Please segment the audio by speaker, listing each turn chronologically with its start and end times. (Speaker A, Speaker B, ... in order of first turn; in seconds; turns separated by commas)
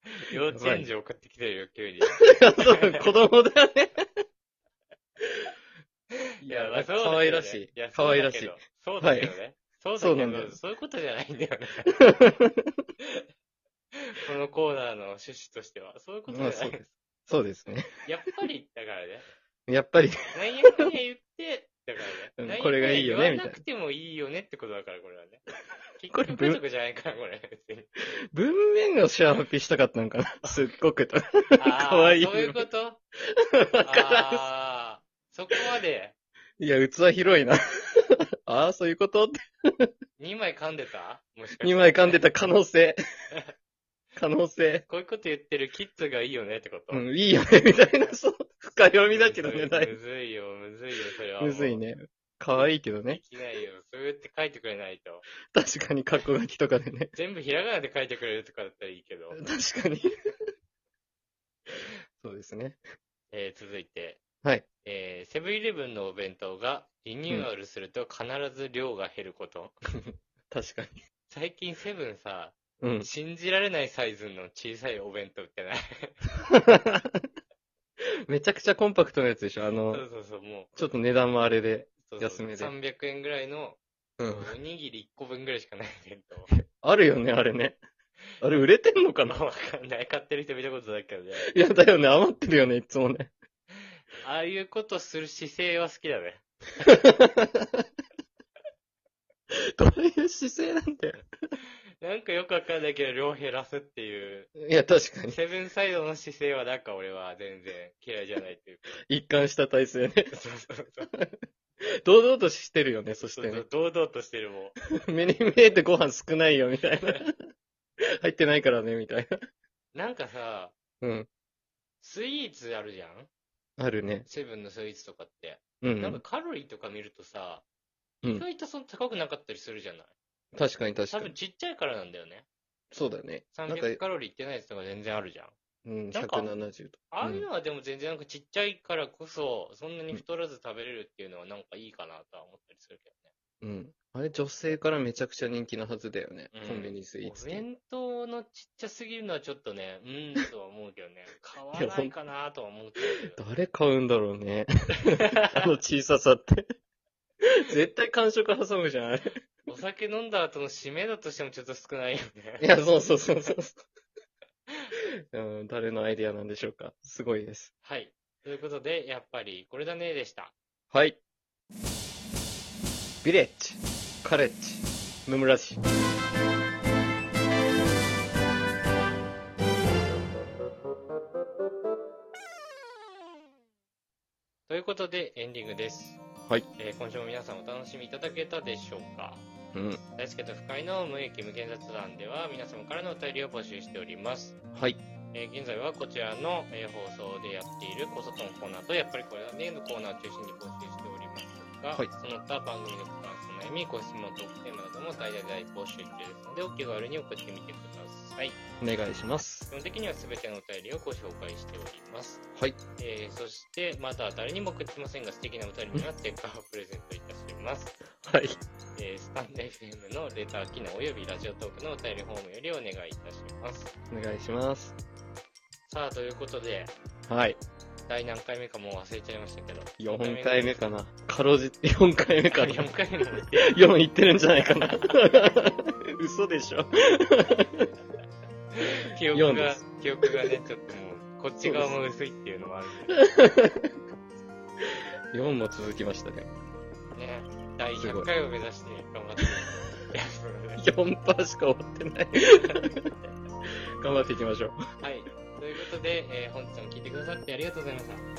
Speaker A: 0.3-3.0, Speaker B: 0.5-0.9, Speaker B: 2.1-4.1, Speaker B: 6.4-9.3, Speaker A: 6.5-11.9, Speaker B: 10.0-10.6, Speaker B: 11.9-12.8, Speaker A: 14.1-16.9, Speaker B: 16.3-17.9, Speaker A: 18.0-19.2, Speaker B: 19.7-20.1, Speaker A: 20.3-25.4, Speaker B: 22.4-23.6, Speaker A: 26.0-27.9, Speaker B: 26.1-26.6, Speaker B: 28.3-32.6, Speaker A: 31.6-33.0, Speaker B: 33.4-34.4, Speaker A: 33.9-36.1, Speaker B: 36.6-39.9, Speaker A: 40.2-42.2, Speaker B: 41.6-43.0, Speaker B: 44.1-44.8, Speaker A: 44.9-47.0, Speaker B: 46.9-50.0, Speaker A: 49.1-51.8, Speaker B: 51.4-53.2, Speaker A: 52.5-55.2, Speaker B: 55.5-57.1, Speaker A: 57.1-59.4, Speaker B: 59.3-60.1, Speaker B: 62.2-62.8, Speaker A: 63.3-64.2, Speaker A: 64.8-69.7, Speaker B: 70.0-71.0, Speaker A: 71.3-76.2, Speaker B: 72.8-73.1, Speaker B: 76.5-77.3, Speaker B: 78.3-80.1, Speaker A: 79.9-80.7, Speaker B: 80.8-82.7, Speaker A: 82.0-83.8, Speaker B: 84.2-84.5, Speaker A: 84.3-86.5, Speaker B: 86.8-87.8, Speaker B: 88.4-89.4, Speaker A: 89.2-91.4, Speaker B: 91.4-93.3, Speaker A: 94.2-96.4, Speaker B: 96.8-97.8, Speaker B: 99.8-101.2, Speaker A: 102.0-104.5, Speaker B: 104.5-105.4, Speaker A: 105.3-109.0, Speaker B: 109.1-110.3, Speaker A: 110.3-111.1, Speaker B: 111.1-111.4, Speaker B: 112.0-113.7, Speaker A: 113.2-114.7, Speaker B: 115.1-117.4, Speaker B: 118.2-119.3, Speaker A: 119.9-120.7, Speaker B: 121.0-121.3, Speaker A: 122.0-123.3, Speaker B: 123.8-124.2, Speaker A: 124.2-127.6, Speaker B: 125.8-126.2, Speaker A: 128.2-130.1, Speaker B: 130.5-131.3, Speaker A: 131.1-132.4, Speaker B: 132.9-134.0, Speaker A: 133.5-135.5, Speaker B: 135.8-137.4, Speaker A: 136.1-136.5, Speaker A: 137.1-143.3, Speaker B: 143.6-147.6, Speaker A: 146.5-153.4, Speaker B: 151.7-152.1, Speaker B: 153.3-156.7, Speaker B: 157.4-159.3, Speaker A: 159.7-162.6, Speaker B: 162.6-163.8, Speaker B: 165.3-167.7, Speaker A: 167.8-170.5, Speaker B: 170.9-171.2, Speaker B: 173.2-175.8, Speaker A: 184.7-186.2, Speaker A: 186.8-189.4, Speaker B: 189.7-190.0, Speaker A: 190.2-194.6, Speaker B: 194.7-195.0, Speaker A: 195.3-208.6, Speaker B: 208.8-209.7, Speaker A: 209.7-212.4, Speaker A: 213.0-218.0, Speaker B: 218.2-218.6, Speaker A: 218.9-223.9, Speaker B: 224.1-224.9, Speaker A: 225.9-226.9, Speaker B: 227.3-227.6, Speaker A: 228.1-230.8, Speaker B: 230.0-232.9, Speaker A: 232.5-233.8, Speaker B: 233.5-237.9, Speaker A: 234.9-235.1, Speaker A: 238.8-243.2, Speaker B: 239.3-239.8, Speaker B: 241.6-242.0, Speaker B: 243.1-243.9, Speaker B: 245.3-246.5, Speaker A: 247.1-250.8, Speaker B: 247.9-248.3, Speaker B: 250.8-253.1, Speaker B: 254.0-254.8, Speaker A: 255.0-258.2